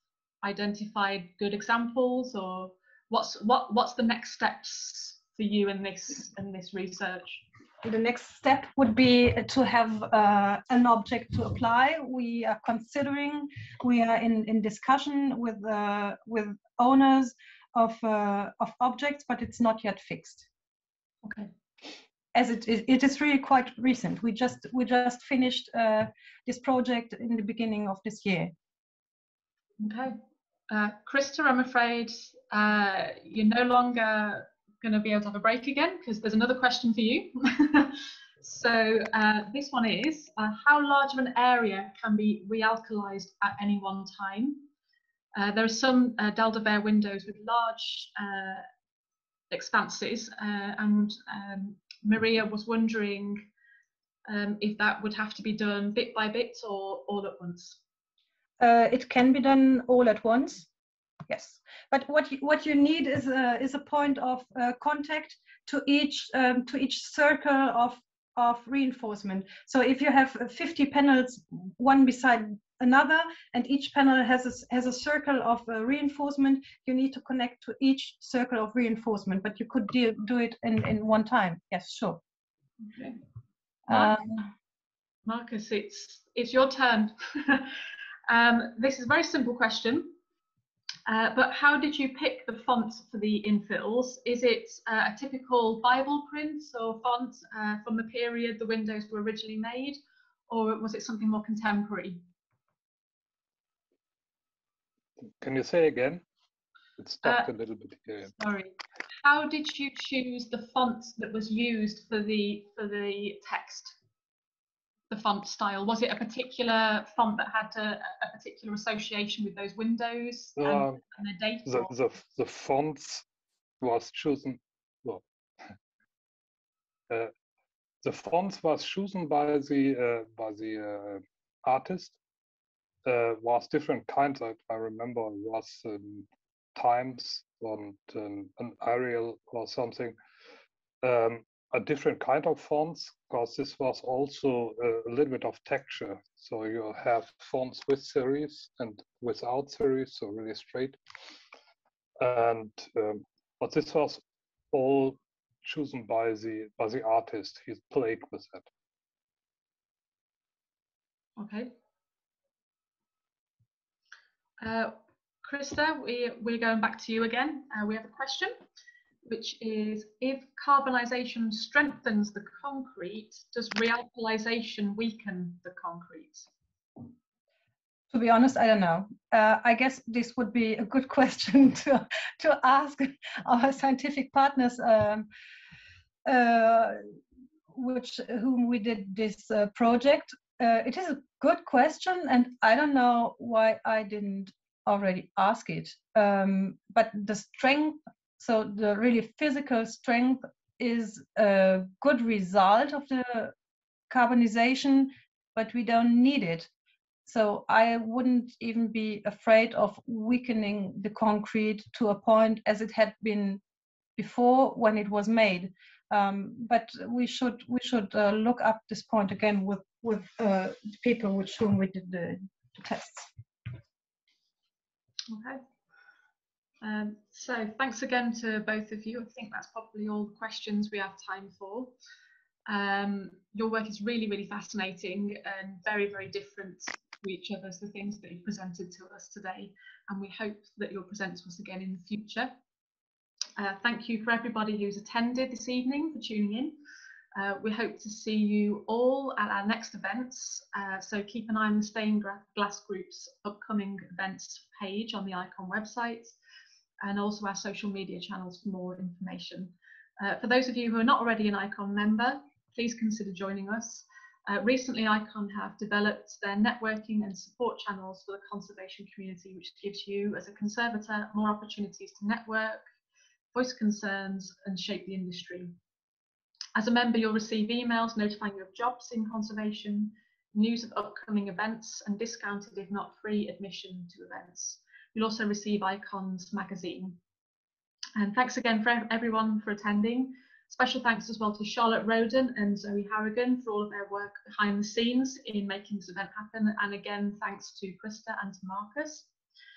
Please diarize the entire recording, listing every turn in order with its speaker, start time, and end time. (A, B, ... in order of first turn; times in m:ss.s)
0:00.4-0:07.4 A
0:07.8-0:20.4 B
0:21.2-0:21.5 A
0:22.3-0:28.5 B
0:29.8-0:30.2 A
0:30.7-0:44.6 A
0:45.3-0:48.6 A
0:49.5-0:53.4 A
0:54.3-0:57.8 A
0:58.6-1:00.7 B
1:01.3-1:22.2 B
1:22.8-1:23.2 A
1:23.9-1:24.5 B
1:25.2-1:27.7 A
1:28.3-1:30.2 A
1:31.1-1:40.0 A
1:40.5-1:42.2 A
1:45.4-1:46.2 C
1:47.0-1:48.3 C
1:47.2-1:47.5 A
1:48.3-1:54.0 A
1:55.1-2:01.9 A
2:00.6-2:01.0 C
2:01.7-2:03.2 C
2:03.8-2:05.2 C
2:08.0-2:12.2 C
2:13.0-2:20.1 C
2:21.0-2:31.0 C
2:32.2-2:34.2 C
2:34.7-2:38.7 C
2:41.4-2:41.7 A
2:44.6-2:48.5 A
2:49.2-2:56.5 A
2:58.1-3:05.3 B
3:06.2-3:07.0 B
3:07.7-3:23.5 B
3:24.1-3:26.7 B
3:27.2-3:33.6 B
3:34.2-3:43.3 B
3:45.3-3:45.6 A
3:46.8-3:51.9 A
3:52.7-4:02.5 A
4:03.6-4:06.8 A
4:07.3-4:16.4 A
4:17.0-4:32.8 A
4:33.5-4:35.7 A
4:36.7-4:47.2 A
4:48.2-4:59.3 A